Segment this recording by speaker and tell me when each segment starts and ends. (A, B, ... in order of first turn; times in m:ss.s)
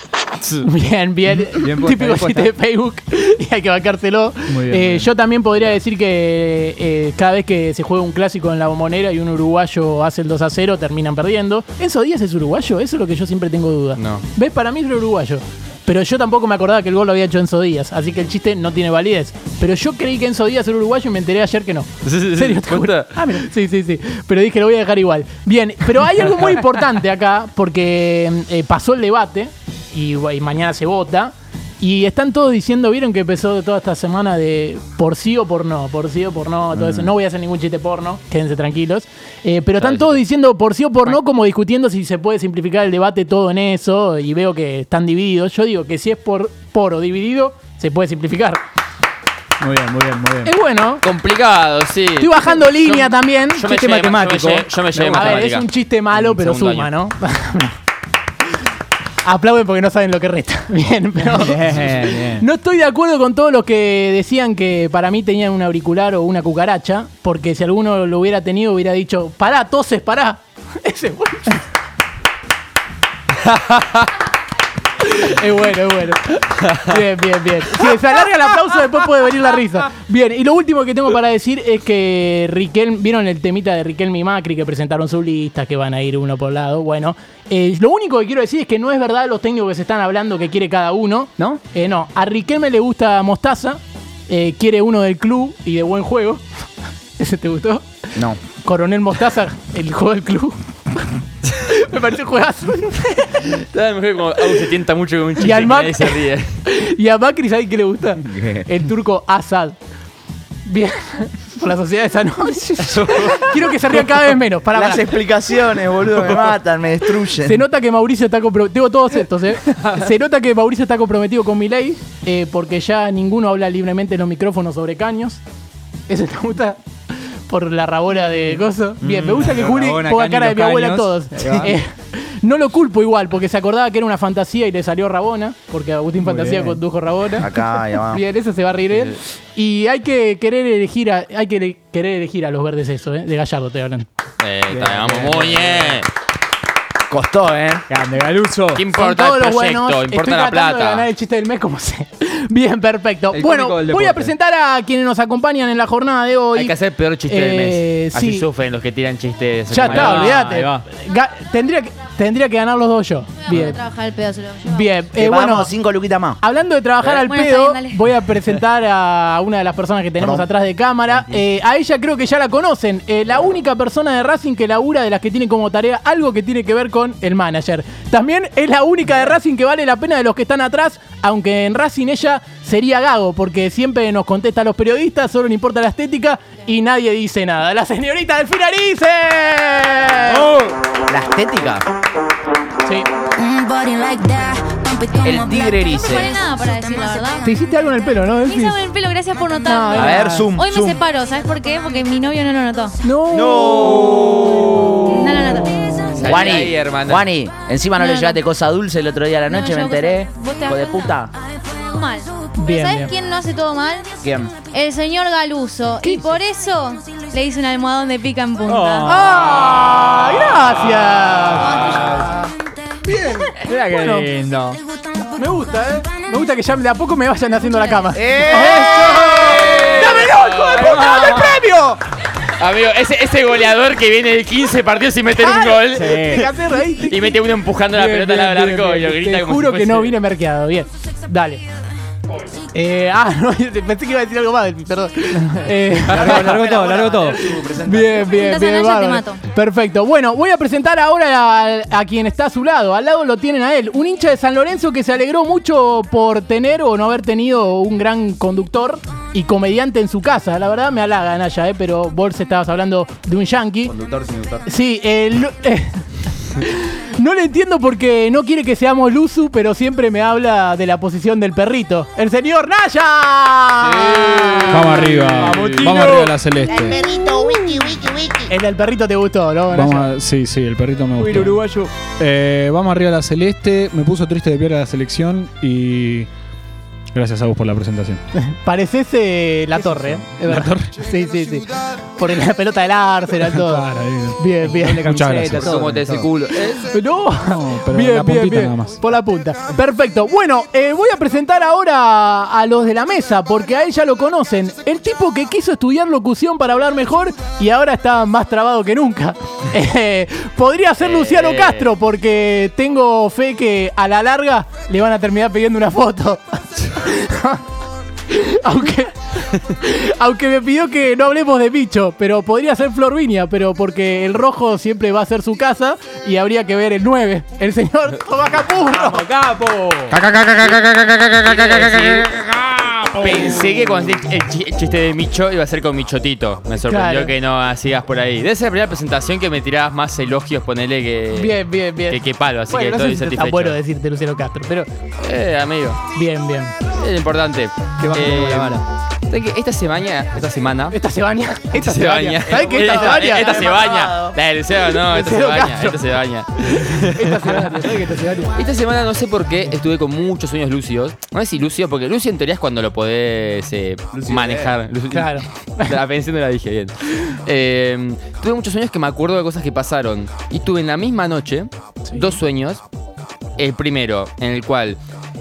0:00.6-0:48.6 A
0:01.5-0:02.5 B
0:04.5-0:05.1 B
0:14.0-0:14.2 C
0:22.0-0:23.1 C
0:36.7-0:37.1 B
0:39.8-0:40.2 C
0:49.6-0:50.5 B
0:50.4-0:51.0 A
0:51.0-0:56.9 C
0:52.2-0:53.6 A
0:53.6-0:55.4 B
0:55.1-0:57.8 A
0:59.2-1:11.6 A
1:01.3-1:02.4 B
1:13.4-1:14.1 C
1:15.0-1:36.4 A
1:37.2-1:37.8 A
1:38.6-1:41.0 A
1:41.6-1:43.5 A
1:43.5-1:46.5 C
1:45.4-1:49.8 A
1:48.3-1:48.6 D
1:50.6-1:55.2 A
1:52.8-1:53.5 C
1:54.7-1:57.6 D
1:57.4-2:05.4 A
1:59.7-2:00.0 B
2:06.1-2:06.8 A
2:07.5-2:24.1 A
2:09.0-2:11.7 B
2:16.2-2:16.8 B
2:17.4-2:18.2 D
2:24.4-2:26.1 C
2:24.7-2:26.0 B
2:27.1-2:27.8 D
2:27.9-2:28.8 B
2:28.7-2:31.1 C
2:28.9-2:36.7 A
2:33.3-2:34.3 B
2:36.5-2:40.4 C
2:37.3-2:38.4 A
2:39.7-2:43.8 A
2:39.8-2:40.8 B
2:43.4-2:44.9 E
2:44.6-2:45.7 A
2:45.2-2:46.4 D
2:46.4-3:10.5 A
2:47.2-2:48.0 E
2:50.2-2:50.5 D
3:11.1-3:11.8 D
3:15.2-3:16.3 D
3:15.8-3:17.5 E
3:17.4-3:18.8 A
3:18.4-3:23.0 E
3:19.6-3:20.5 A
3:19.9-3:21.0 D
3:23.0-3:24.1 A
3:23.3-3:25.3 D
3:25.0-3:25.9 E
3:26.2-3:27.2 C
3:26.2-3:31.3 D
3:28.0-3:28.4 E
3:29.5-3:30.9 E
3:31.8-3:34.1 E
3:32.6-3:33.1 A
3:34.2-3:34.5 D
3:34.7-3:39.2 E
3:36.0-3:36.3 A
3:38.6-3:39.2 B
3:39.0-3:42.5 A
3:41.5-3:42.2 C
3:43.0-3:44.3 A
3:43.6-3:44.8 B
3:45.3-3:52.0 A
3:47.7-3:48.2 E
3:48.1-3:49.6 D
3:48.6-3:49.0 B
3:49.3-3:51.5 C
3:51.0-3:51.4 B
3:52.6-3:56.5 C
3:55.4-4:01.6 A
3:55.9-3:56.4 B
3:57.0-4:00.1 C
4:02.7-4:06.6 A
4:06.1-4:07.4 B
4:06.1-4:08.5 D
4:06.1-4:06.4 C
4:07.8-4:23.9 A
4:08.2-4:09.4 E
4:23.8-4:24.6 D
4:24.7-4:36.4 A
4:33.8-4:35.9 C
4:34.7-4:37.0 F
4:36.6-4:38.5 D
4:37.2-4:37.8 A
4:38.5-4:40.1 A
4:39.7-4:46.3 F
4:41.2-4:41.9 A
4:41.2-4:41.6 B
4:47.1-4:48.2 F
4:48.4-4:55.1 A
4:50.4-4:50.8 F
4:53.5-4:54.4 F
4:54.7-4:56.5 B
4:55.0-4:55.8 F
4:55.5-4:56.9 C
4:56.6-5:17.6 A
4:57.5-4:59.0 F
5:11.0-5:11.9 C
5:18.3-5:29.2 A
5:28.9-5:30.2 B
5:30.1-5:32.4 C
5:30.1-5:31.2 F
5:31.9-5:33.8 F
5:33.2-5:43.8 C
5:36.9-5:37.3 A
5:41.3-5:44.9 A
5:45.2-5:46.0 C
5:46.1-5:46.7 A
5:46.9-5:51.0 C
5:48.0-5:48.8 B
5:50.9-5:53.6 A
5:51.7-5:57.4 C
5:52.6-5:54.4 D
5:55.0-5:56.0 A
5:56.7-5:58.5 A
5:58.5-6:12.8 C
6:04.1-6:04.7 D
6:05.1-6:05.9 A
6:12.1-6:12.4 A
6:13.6-6:15.0 C